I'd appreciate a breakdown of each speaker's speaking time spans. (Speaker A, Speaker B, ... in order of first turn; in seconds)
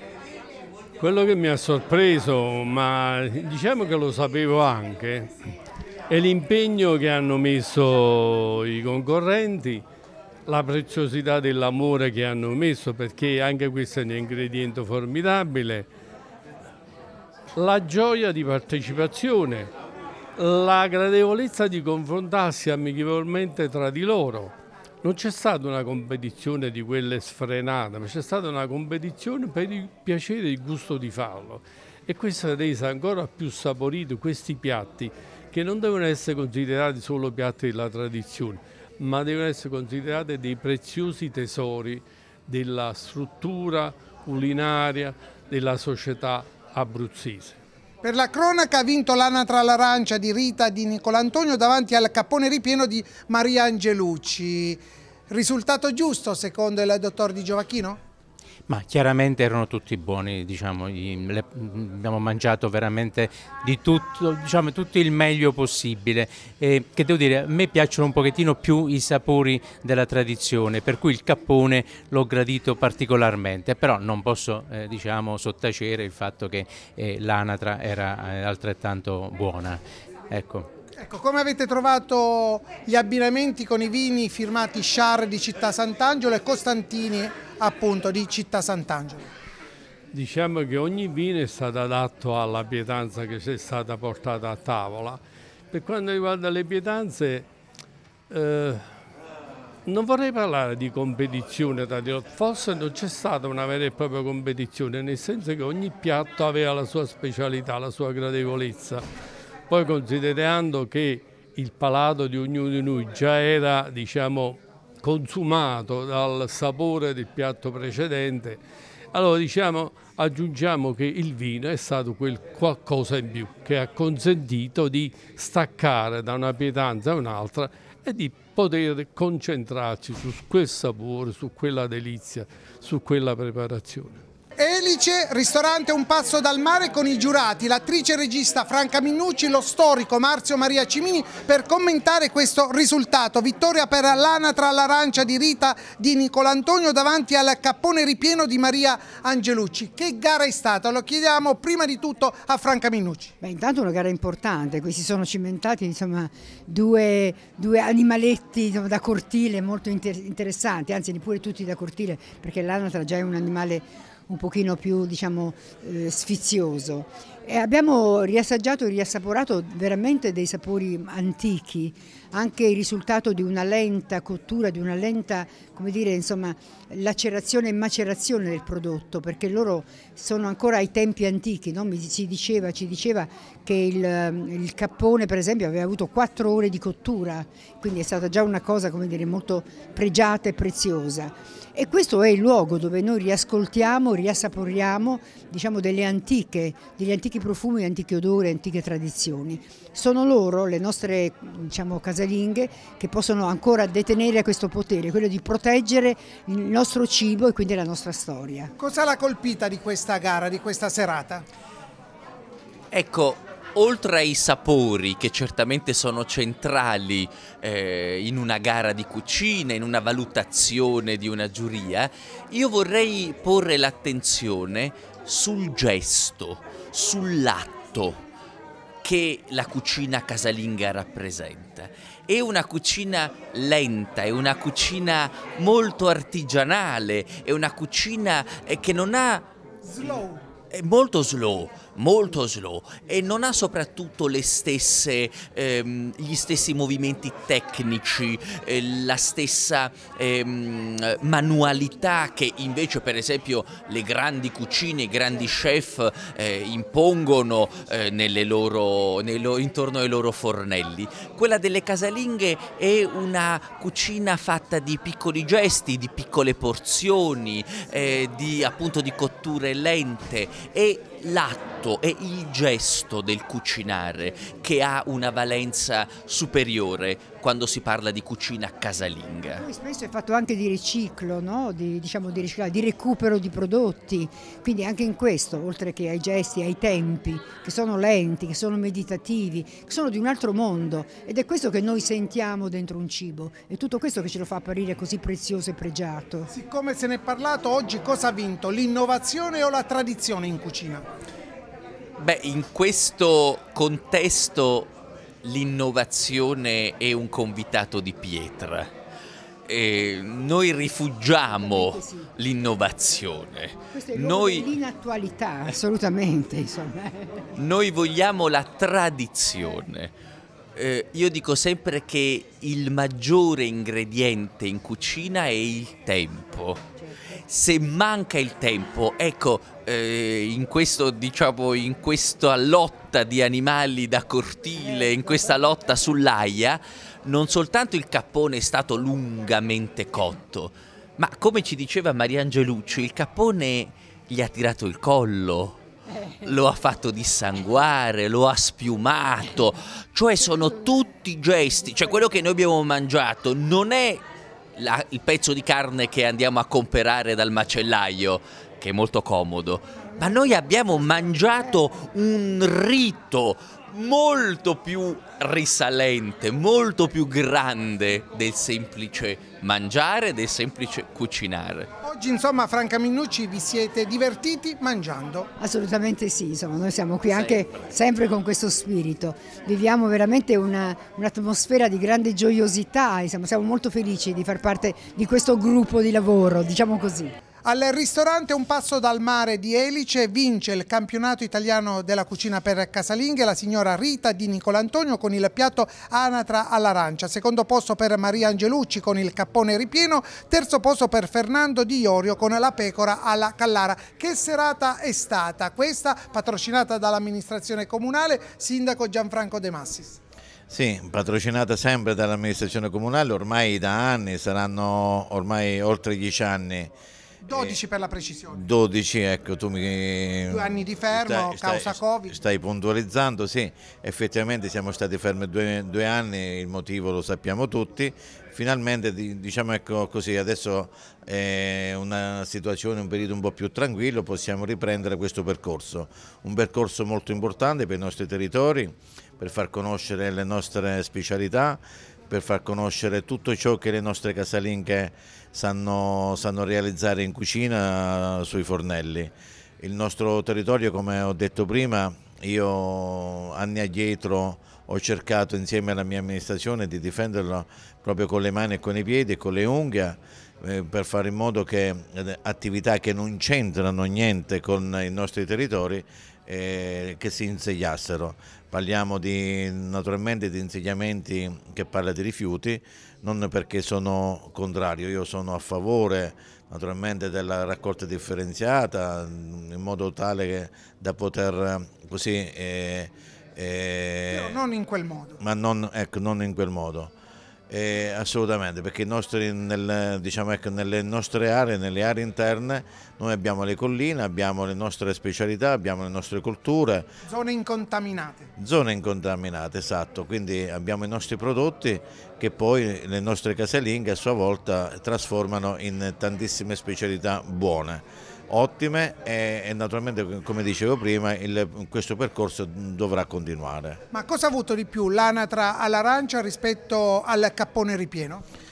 Speaker A: 1.0-5.3, 6.1-9.8, 10.5-15.9, 17.5-19.7, 20.4-47.5, 90.1-95.2, 95.7-97.5, 98.3-98.8, 99.8-109.0, 109.7-118.6, 119.1-134.2
Speaker B: 48.0-58.0, 81.0-89.3, 134.6-153.3, 208.8-211.4, 239.8-240.4, 296.5-301.0, 372.0-375.5, 387.6-410.2, 417.4-418.7, 420.5-422.4, 484.3-485.4, 497.3-498.5, 514.1-518.4
Speaker C: 58.7-80.7
Speaker D: 153.4-208.7, 279.4-296.5, 311.6-312.3, 313.9-317.6, 334.8-335.9, 375.6-387.3
Speaker E: 212.9-228.2, 229.0-239.5, 240.7-279.6, 302.2-304.9, 305.4-308.9, 309.6-314.7, 317.6-320.1, 320.8-326.8, 327.5-345.8, 346.4-354.2, 354.8-371.9, 377.3-377.6
Speaker F: 410.7-416.9, 417.5-417.8, 418.5-484.6, 485.4-487.1, 487.7-497.1, 498.6-514.0